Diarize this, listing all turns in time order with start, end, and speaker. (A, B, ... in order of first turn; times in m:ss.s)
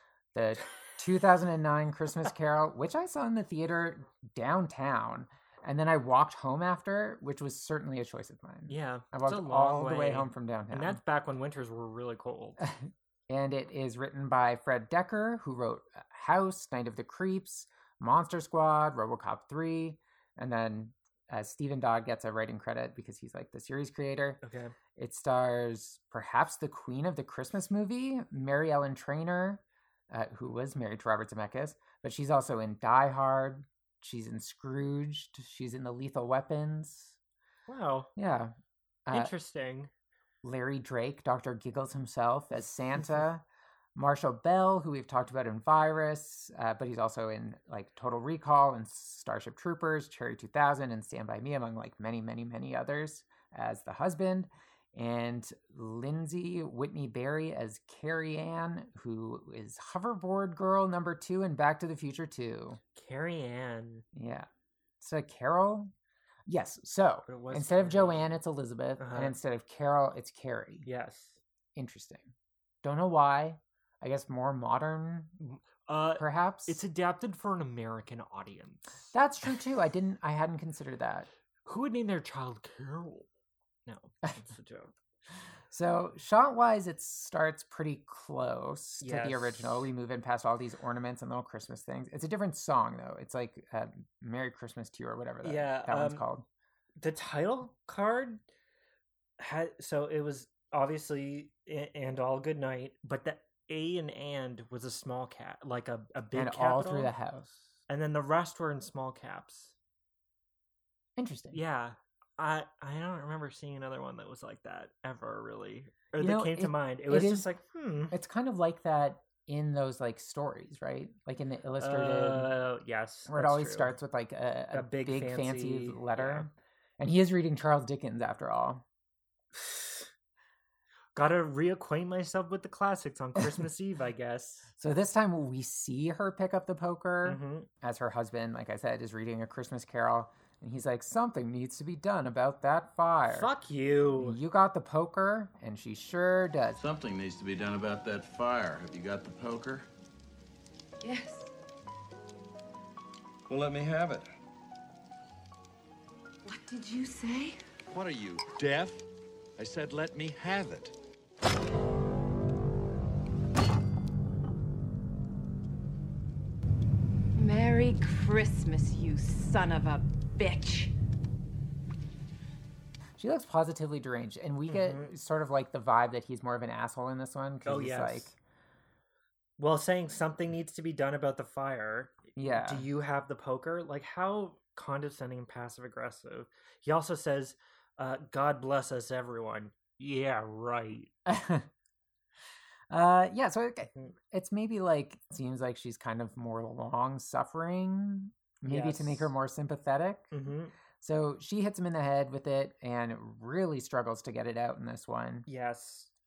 0:00.4-0:11.0 A
0:08.7-0:12.6 B
0:12.6-0:24.4 A
0:24.4-0:24.8 B
0:25.0-0:37.2 A
0:37.7-0:38.1 B
0:38.2-0:38.6 A
0:39.1-0:39.3 A
0:39.1-0:39.9 B
0:40.4-0:43.4 A
0:44.0-1:02.8 A
1:03.0-1:04.0 B
1:04.1-1:04.5 A
1:05.0-1:05.9 A
1:06.5-1:10.9 A
1:07.3-1:08.3 B
1:09.0-1:09.4 B
1:10.8-1:11.4 B
1:11.8-1:12.3 A
1:12.8-1:15.4 A
1:15.4-1:19.1 B
1:16.2-1:16.8 A
1:19.1-1:21.3 A
1:21.6-1:23.3 B
1:23.9-1:24.9 B
1:25.7-1:36.5 A
1:29.0-1:29.9 B
1:35.4-1:36.3 B
1:37.0-1:38.4 B
1:39.4-1:47.1 B
1:46.3-1:47.6 A
1:47.9-1:49.8 B
1:51.2-1:51.6 A
1:51.5-1:58.2 B
1:56.2-1:57.5 A
1:58.1-2:02.5 A
2:01.8-2:04.0 B
2:03.3-2:08.8 A
2:04.7-2:06.5 B
2:09.5-2:10.1 B
2:11.1-2:14.7 B
2:14.8-2:23.5 A
2:17.2-2:17.7 B
2:23.3-2:24.4 B
2:24.2-2:26.8 A
2:26.8-2:29.9 C
2:31.0-2:31.5 D
2:33.5-2:34.3 C
2:36.4-2:37.6 D
2:37.9-2:39.1 C
2:39.6-2:40.9 C
2:47.4-2:50.9 D
2:53.2-2:58.4 A
2:54.7-2:55.1 B
2:57.6-2:58.3 B
2:59.6-3:11.1 B
3:02.4-3:02.9 A
3:11.3-3:11.7 A
3:12.9-3:20.3 A
3:18.6-3:19.3 B
3:20.3-3:20.8 B
3:21.0-3:25.5 A
3:25.5-3:26.1 B